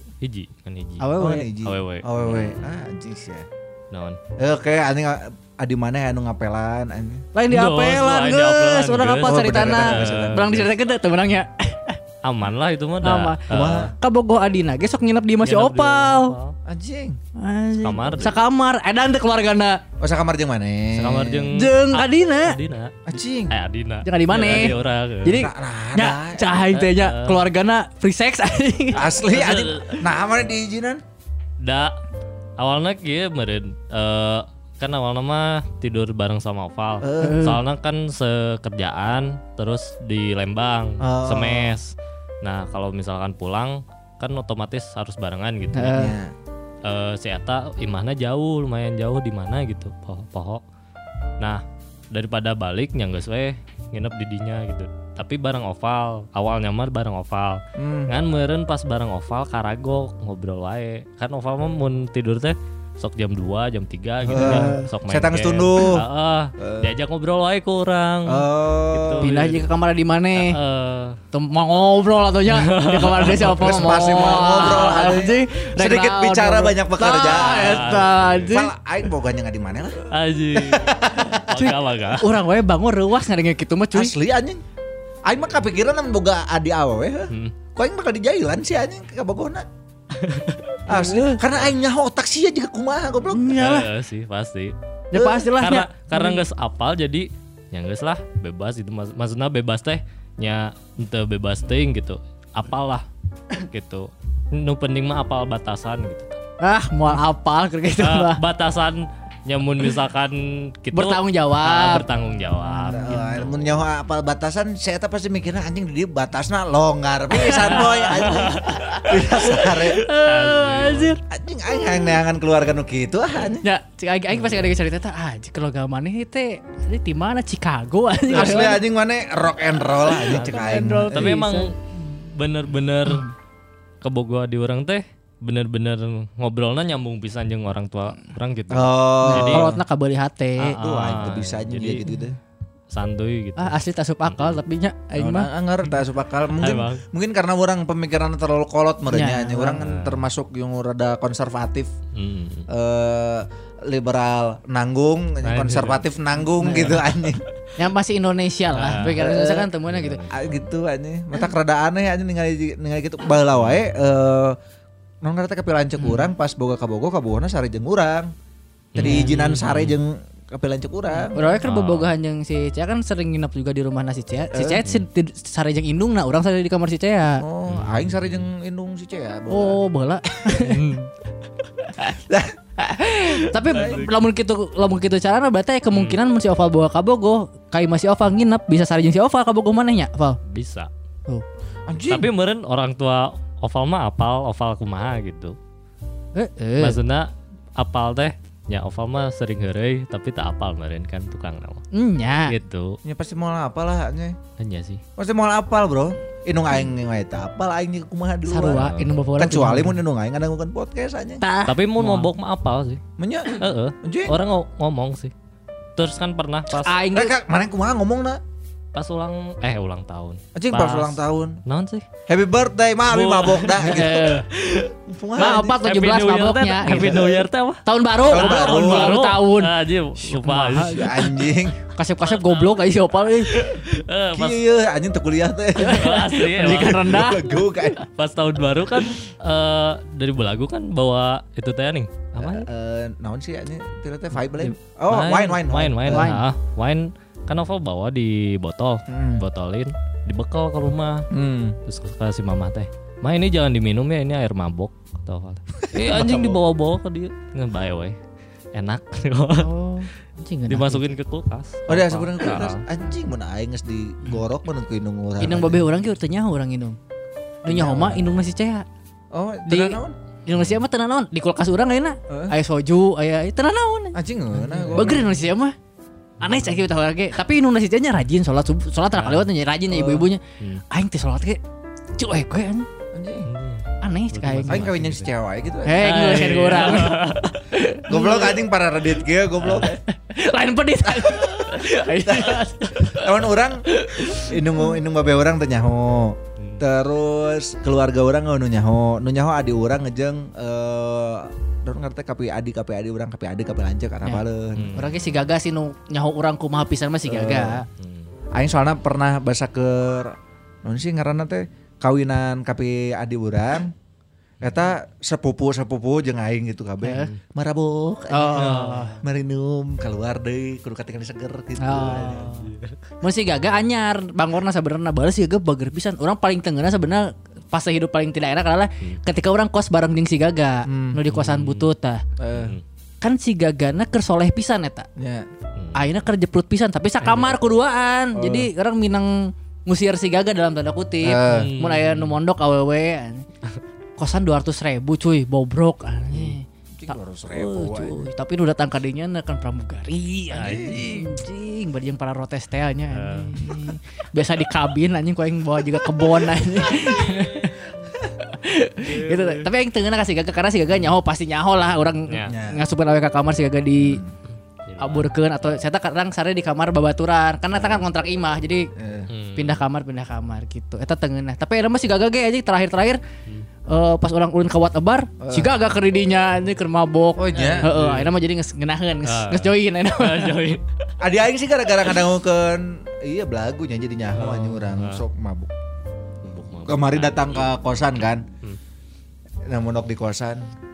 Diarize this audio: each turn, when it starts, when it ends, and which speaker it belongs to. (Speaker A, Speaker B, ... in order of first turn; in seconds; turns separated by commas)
Speaker A: 0.2-2.7, Speaker B: 1.0-1.5, Speaker C: 1.1-3.5, Speaker A: 3.9-4.2, Speaker C: 4.4-7.2, Speaker B: 7.3-12.0, Speaker A: 7.5-10.5, Speaker C: 9.2-10.7, Speaker A: 12.2-13.9, Speaker B: 13.0-16.3, Speaker C: 13.5-13.9, Speaker A: 15.4-16.5, Speaker C: 16.6-17.2, Speaker B: 17.4-19.8, Speaker A: 17.8-18.4, Speaker C: 20.0-21.5, Speaker A: 20.9-25.4, Speaker B: 21.5-22.6, Speaker C: 23.1-23.5, Speaker B: 24.0-29.0, Speaker C: 25.3-26.5, Speaker A: 26.6-27.4, Speaker C: 28.9-31.0, Speaker A: 29.3-30.0, Speaker A: 31.6-31.9, Speaker A: 32.6-46.1, Speaker C: 37.0-37.4, Speaker B: 37.2-37.6, Speaker C: 41.0-41.8, Speaker B: 45.7-46.1, Speaker C: 45.9-46.3, Speaker A: 46.8-50.6, Speaker A: 51.4-69.7, Speaker C: 57.8-58.1, Speaker C: 64.2-66.0, Speaker B: 64.3-64.9, Speaker C: 66.6-66.9, Speaker C: 68.2-69.3, Speaker B: 69.2-70.6, Speaker A: 70.3-71.2, Speaker B: 71.3-78.7, Speaker A: 72.5-74.9, Speaker C: 73.4-80.0, Speaker A: 77.2-78.5, Speaker A: 80.1-82.3, Speaker C: 80.5-81.3, Speaker B: 81.5-84.1, Speaker C: 83.9-84.6, Speaker C: 85.2-89.7, Speaker A: 90.2-90.8, Speaker C: 90.8-93.5, Speaker B: 90.9-91.4, Speaker B: 93.3-93.9, Speaker A: 93.5-94.7, Speaker B: 95.1-96.4, Speaker C: 95.1-95.5, Speaker A: 95.5-103.0, Speaker A: 103.6-106.4, Speaker B: 106.6-108.4, Speaker A: 108.0-113.5, Speaker B: 110.9-112.0, Speaker B: 112.7-113.4, Speaker C: 112.9-120.0, Speaker B: 117.3-121.2, Speaker A: 117.6-119.0, Speaker A: 120.1-121.2, Speaker C: 121.2-123.7, Speaker B: 123.6-128.8, Speaker C: 128.3-131.4, Speaker B: 130.1-131.7, Speaker A: 130.3-133.2, Speaker A: 134.0-139.7, Speaker C: 138.7-139.8, Speaker B: 139.2-140.8, Speaker A: 140.6-142.1, Speaker C: 140.8-142.3, Speaker A: 142.9-144.6, Speaker B: 143.6-145.5, Speaker C: 145.2-151.9, Speaker A: 146.6-147.0, Speaker B: 149.1-149.8, Speaker A: 149.8-150.2, Speaker A: 152.1-152.7, Speaker C: 152.7-157.4, Speaker A: 155.4-156.0, Speaker B: 156.6-157.0, Speaker B: 157.8-160.2, Speaker A: 158.7-159.2, Speaker C: 159.1-159.7, Speaker A: 159.9-160.6, Speaker C: 160.3-164.6, Speaker C: 165.2-168.3, Speaker B: 166.0-166.3, Speaker A: 168.9-169.9, Speaker C: 168.9-171.6, Speaker B: 169.0-169.3, Speaker B: 171.2-177.4, Speaker A: 171.6-172.1, Speaker C: 174.5-174.8, Speaker C: 177.4-179.8, Speaker A: 177.7-178.4, Speaker B: 179.5-180.9, Speaker A: 180.7-181.1, Speaker C: 182.1-182.5, Speaker B: 182.8-190.4, Speaker C: 183.6-184.0, Speaker A: 183.7-184.1, Speaker A: 185.9-186.2, Speaker A: 190.4-190.9, Speaker C: 191.9-192.3, Speaker A: 192.1-195.6, Speaker B: 196.3-197.0, Speaker A: 196.8-201.8, Speaker B: 201.9-202.5, Speaker A: 202.5-203.0, Speaker C: 203.0-204.4, Speaker A: 204.6-205.0, Speaker C: 205.2-211.4, Speaker B: 208.5-210.0, Speaker A: 208.7-209.1, Speaker B: 211.4-212.3, Speaker A: 211.7-213.0, Speaker C: 213.2-214.4, Speaker A: 213.5-215.3, Speaker A: 215.9-216.9, Speaker B: 216.7-217.3, Speaker C: 217.1-218.4, Speaker A: 218.9-222.1, Speaker C: 220.5-221.6, Speaker C: 222.3-225.8, Speaker A: 223.1-224.3, Speaker B: 223.8-224.5, Speaker B: 225.3-229.7, Speaker A: 225.4-231.1, Speaker C: 228.3-229.2, Speaker B: 230.2-231.4, Speaker C: 230.8-231.8, Speaker B: 231.9-233.7, Speaker A: 232.2-232.9, Speaker A: 233.5-234.6, Speaker C: 234.3-238.0, Speaker B: 235.8-237.9, Speaker A: 235.8-237.3, Speaker A: 238.1-242.7, Speaker C: 242.4-246.3, Speaker A: 245.1-251.3, Speaker B: 246.1-246.4, Speaker C: 249.1-249.4, Speaker C: 251.3-251.8, Speaker A: 251.8-258.2, Speaker C: 255.8-256.6, Speaker A: 258.7-259.7, Speaker B: 259.6-261.1, Speaker A: 260.7-262.8, Speaker C: 261.9-265.9, Speaker B: 265.4-267.0, Speaker B: 267.6-268.8, Speaker C: 267.7-268.4, Speaker C: 269.3-270.1, Speaker B: 269.7-274.2, Speaker C: 272.3-272.5, Speaker C: 274.1-275.2, Speaker A: 274.7-275.2, Speaker B: 274.9-275.7, Speaker B: 276.4-281.6, Speaker A: 276.4-276.7, Speaker A: 279.1-279.5, Speaker C: 279.9-280.2, Speaker B: 282.2-282.9, Speaker C: 283.1-283.5, Speaker A: 283.5-285.3, Speaker B: 284.0-284.9, Speaker C: 284.7-286.1, Speaker B: 285.8-288.6, Speaker A: 286.0-287.6, Speaker C: 288.1-290.0, Speaker A: 289.6-289.9, Speaker B: 290.0-293.3, Speaker C: 291.1-305.0, Speaker B: 293.9-294.6, Speaker A: 296.6-296.8, Speaker A: 304.7-305.4, Speaker B: 304.9-307.9, Speaker C: 307.2-307.8, Speaker A: 308.0-308.3, Speaker C: 308.5-313.9, Speaker C: 314.6-322.5, Speaker B: 317.0-317.3, Speaker B: 318.3-319.2, Speaker A: 318.5-319.1, Speaker B: 321.8-332.2, Speaker A: 321.9-323.0, Speaker C: 330.9-331.2, Speaker A: 331.3-331.9, Speaker C: 332.4-332.7, Speaker A: 332.5-332.8, Speaker B: 333.2-335.1, Speaker C: 335.2-335.5, Speaker A: 335.8-336.0, Speaker B: 335.9-343.4, Speaker A: 337.2-337.5, Speaker C: 338.3-338.7, Speaker C: 341.2-341.7, Speaker A: 341.5-342.4, Speaker B: 344.2-364.2, Speaker C: 347.0-348.2, Speaker A: 350.5-351.2, Speaker C: 350.6-351.1, Speaker A: 353.1-353.8, Speaker A: 359.0-359.7, Speaker C: 362.5-362.8, Speaker C: 364.0-364.3, Speaker A: 364.9-365.3, Speaker B: 365.0-368.9, Speaker C: 368.9-369.3, Speaker A: 369.3-369.8, Speaker B: 369.5-373.2, Speaker B: 373.9-380.7, Speaker C: 375.4-375.8, Speaker C: 377.4-377.9, Speaker A: 377.5-378.4, Speaker A: 379.2-380.8, Speaker C: 381.2-385.7, Speaker A: 384.3-385.2, Speaker A: 386.4-387.7, Speaker C: 386.8-388.5, Speaker C: 389.7-390.6